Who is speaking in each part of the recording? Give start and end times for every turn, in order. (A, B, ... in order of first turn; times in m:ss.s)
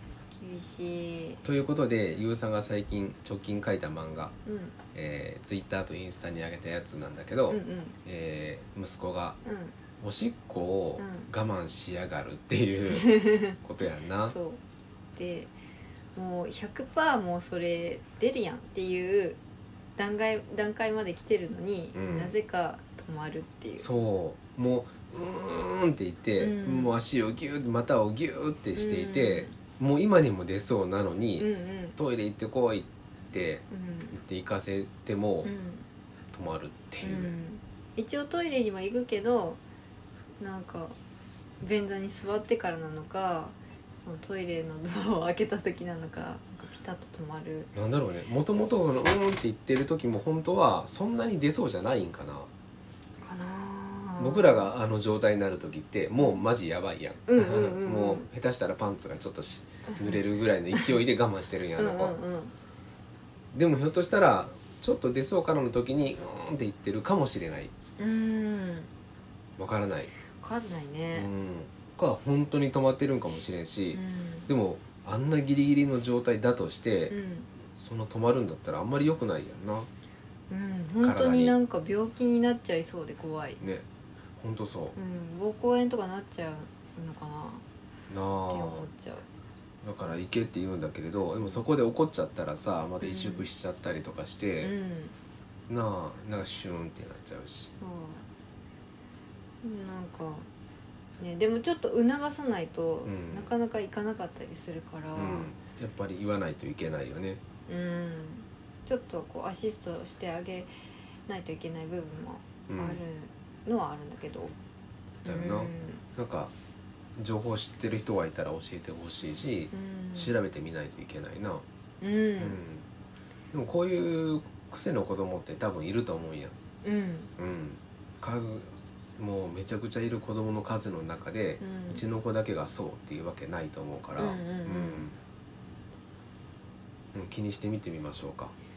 0:00.4-0:01.4 A
0:01.4-0:04.3 B
0:04.5-0:04.8 A
0:04.9-0:09.4 B
0:07.5-0:08.0 A
0:09.4-0:09.8 A
0:10.0-0:14.4 B
0:11.0-0:11.3 A
0:12.9-0:13.6 A
0:14.3-0:14.6 A
0:15.2-0:15.5 A
0:16.2-0:19.4 A
0:20.0-0:23.9 A
0:22.0-0:22.4 B
0:23.8-0:35.5 B
0:26.4-0:27.0 A
0:28.7-0:29.5 A
0:31.4-0:32.0 A
0:33.7-0:34.2 A
0:35.4-0:35.8 A
0:36.3-0:37.4 B
0:37.0-0:39.6 A
0:40.4-0:41.0 A
0:41.6-0:47.7 A
0:47.7-0:52.5 B
0:53.2-0:54.7 A
0:54.2-1:02.2 B
0:57.3-0:58.3 A
0:59.9-1:00.2 A
1:01.8-1:02.5 A
1:03.5-1:07.7 B
1:08.0-1:08.9 A
1:09.6-1:10.1 B
1:10.4-1:11.3 A
1:11.1-1:17.2 B
1:13.9-1:14.5 A
1:17.1-1:17.5 A
1:17.7-1:19.9 B
1:20.5-1:23.6 A
1:21.0-1:21.6 B
1:23.6-1:23.8 B
1:24.4-1:25.0 B
1:25.0-1:27.6 A
1:28.1-1:28.9 B
1:28.5-1:29.2 A
1:29.8-1:34.7 B
1:33.0-1:33.5 A
1:34.6-1:35.1 A
1:35.7-1:37.7 B
1:37.8-1:38.3 A
1:39.6-1:40.5 A
1:41.2-1:45.5 A
1:43.0-1:43.6 B
1:45.2-1:47.4 B
1:47.7-1:50.7 A
1:51.3-1:54.5 A
1:52.7-1:53.0 B
1:55.2-1:56.0 A
1:55.2-1:56.5 B
1:57.2-2:01.6 B
1:59.7-2:00.3 A
2:02.0-2:02.6 A
2:02.4-2:02.8 B
2:03.5-2:06.6 B
2:06.8-2:07.3 A
2:07.4-2:15.2 B
2:11.6-2:12.0 A
2:14.2-2:15.1 A
2:17.1-2:18.5 B